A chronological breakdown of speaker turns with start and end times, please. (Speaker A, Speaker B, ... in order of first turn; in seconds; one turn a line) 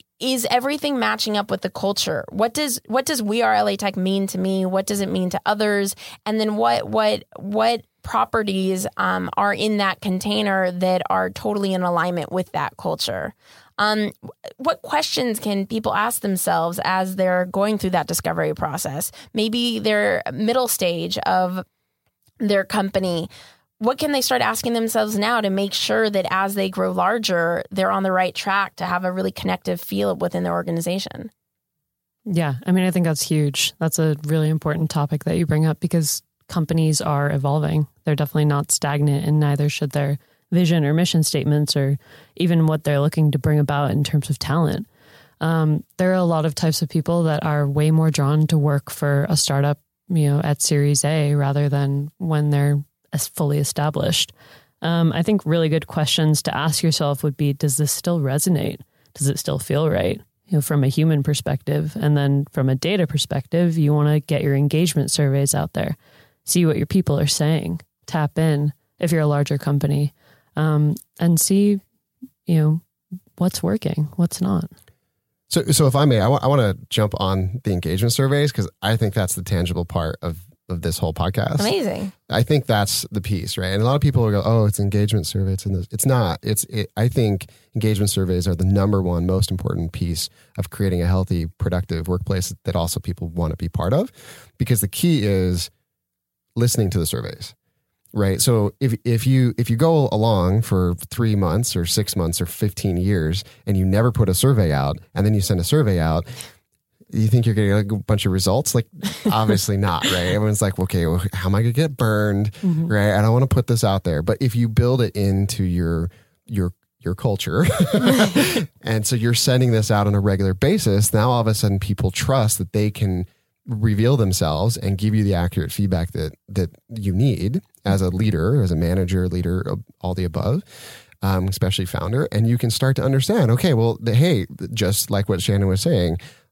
Speaker A: 0.2-21.6
Speaker A: 22.4-31.3
Speaker B: 32.3-44.9
Speaker B: 45.4-71.8
Speaker B: 72.5-72.8
Speaker B: 73.4-74.7
Speaker C: 75.5-81.7
Speaker A: 81.6-82.1
Speaker C: 82.3-95.7
Speaker C: 96.5-97.5
Speaker C: 98.1-106.3
Speaker C: 107.1-130.6
Speaker B: 112.6-112.9
Speaker C: 131.2-136.2